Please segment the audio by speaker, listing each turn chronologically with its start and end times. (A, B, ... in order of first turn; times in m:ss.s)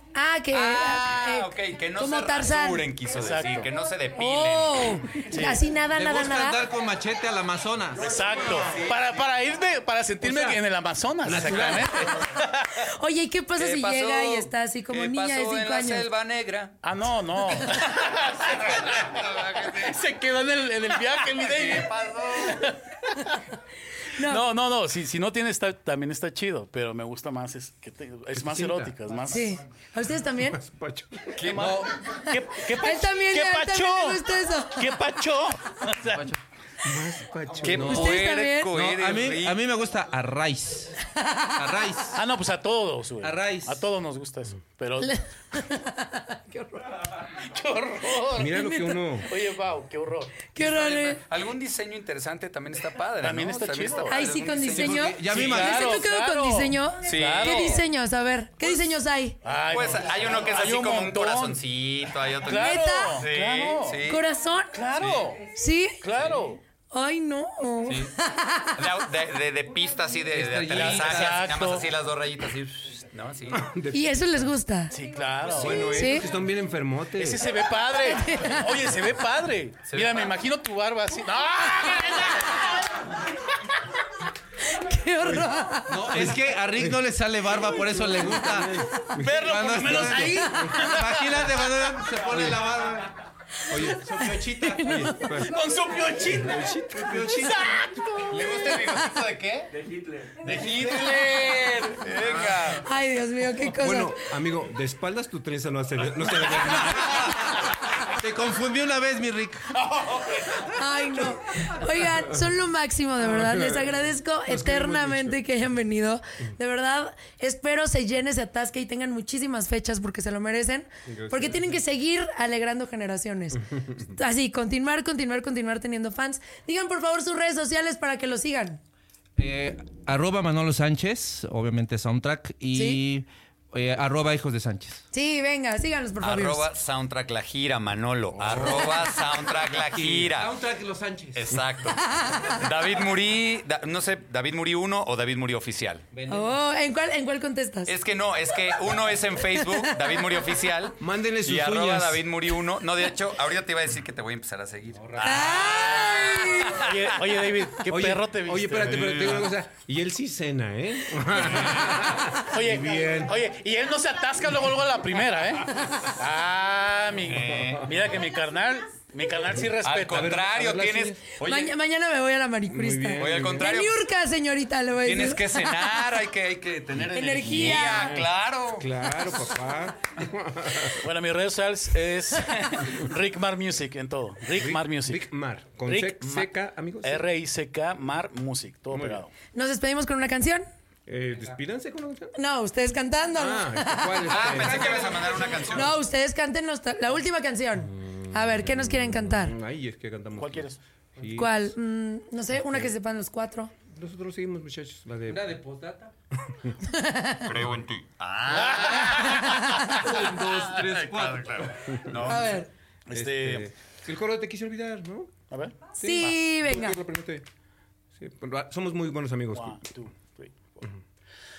0:00.1-0:02.9 A
0:00.5-0:05.1 B
0:03.1-0:03.7 C
0:04.2-0:06.6 A
0:05.3-0:05.6 C
0:05.8-0:08.6 D
0:08.0-0:12.8 C
0:10.2-0:10.6 E
0:11.2-0:12.1 E
0:12.9-0:16.1 A
0:13.6-0:16.8 B
0:16.8-0:23.0 C
0:17.6-0:20.0 B
0:21.1-0:22.7 B
0:24.2-0:24.4 A
0:24.2-0:29.6 C
0:28.3-0:28.9 E
0:29.3-0:30.6 A
0:30.4-0:31.6 E
0:31.3-0:31.7 B
0:31.5-0:34.2 C
0:31.6-0:31.9 D
0:32.8-0:34.8 A
0:34.7-0:36.3 C
0:36.8-0:38.1 E
0:37.6-0:39.6 B
0:37.7-0:40.9 D
0:37.8-0:38.7 A
0:41.2-0:41.5 A
0:41.6-0:42.2 D
0:42.1-0:45.2 C
0:43.2-0:43.8 D
0:45.0-0:47.0 A
0:47.4-0:48.6 C
0:48.3-0:49.3 E
0:48.5-0:49.0 A
0:49.2-0:50.4 C
0:50.5-0:51.2 A
0:50.6-0:55.4 B
0:53.2-0:54.2 C
0:54.1-0:59.4 A
0:54.7-0:56.0 D
0:55.3-0:57.8 C
0:57.0-0:57.8 B
0:59.4-1:01.6 C
0:59.7-1:04.2 B
1:02.4-1:04.0 C
1:02.5-1:03.2 A
1:04.0-1:04.8 A
1:04.7-1:05.4 C
1:05.0-1:05.3 B
1:05.5-1:06.0 A
1:06.0-1:06.6 C
1:06.9-1:08.7 A
1:08.8-1:13.6 B
1:10.3-1:11.5 D
1:10.7-1:11.9 C
1:13.5-1:14.2 E
1:13.9-1:14.9 A
1:14.9-1:16.0 C
1:15.5-1:17.5 E
1:15.8-1:16.3 A
1:17.2-1:23.0 C
1:18.2-1:18.6 A
1:19.9-1:20.3 B
1:24.7-1:26.2 A
1:25.2-1:27.0 E
1:25.9-1:28.8 D
1:27.6-1:30.8 E
1:29.2-1:31.6 C
1:29.3-1:33.1 D
1:32.3-1:32.9 B
1:33.7-1:35.5 E
1:33.7-1:35.3 A
1:33.9-1:34.8 D
1:35.4-1:39.0 C
1:36.2-1:37.8 E
1:38.3-1:39.7 B
1:40.4-1:42.8 B
1:42.2-1:42.6 E
1:42.8-1:44.2 A
1:43.6-1:47.3 E
1:46.7-1:47.3 D
1:48.2-1:49.7 D
1:50.7-2:08.8 A
1:53.3-1:53.9 E
1:54.5-1:55.4 E
2:01.0-2:01.8 E
2:03.5-2:04.1 E
2:09.4-2:15.0 D
2:12.7-2:13.0 A
2:15.1-2:16.7 A
2:16.2-2:20.5 B
2:18.4-2:21.6 D
2:21.3-2:26.0 B
2:26.1-2:26.5 D
2:26.3-2:27.9 A
2:27.9-2:37.1 B
2:29.6-2:29.9 A
2:31.0-2:32.2 E
2:35.0-2:35.4 D
2:35.2-2:36.8 A
2:36.8-2:39.3 C
2:37.9-2:43.3 E
2:38.8-2:39.5 B
2:41.4-2:41.9 B
2:42.5-2:50.4 C
2:47.2-2:47.9 B
2:47.5-2:47.9 E
2:49.8-2:51.7 B
2:50.1-2:51.2 E
2:51.4-2:55.7 A
2:52.7-2:53.7 E
2:53.2-2:54.0 B
2:55.0-2:58.9 B
2:57.1-2:58.2 A
2:57.6-3:01.1 E
3:01.0-3:05.2 C
3:04.5-3:07.2 E
3:05.8-3:06.5 C
3:07.0-3:09.3 C
3:08.9-3:09.2 E
3:09.5-3:10.7 A
3:11.1-3:12.3 E
3:12.4-3:14.4 A
3:13.3-3:15.9 E
3:14.3-3:16.0 B
3:15.7-3:19.5 A
3:17.9-3:21.6 E
3:20.4-3:20.8 C
3:21.3-3:23.7 A
3:23.9-3:25.6 E
3:25.3-3:26.1 D
3:26.9-3:27.5 A
3:27.4-3:29.6 B
3:28.5-3:29.4 C
3:29.4-3:29.8 A
3:30.0-3:31.7 D
3:30.5-3:32.6 B
3:32.1-3:32.4 E
3:32.2-3:32.7 A
3:33.1-3:33.7 C
3:33.1-3:35.3 E
3:35.5-3:36.3 C
3:36.0-3:37.0 A
3:36.0-3:37.4 E
3:38.1-3:39.8 E
3:39.5-3:40.9 C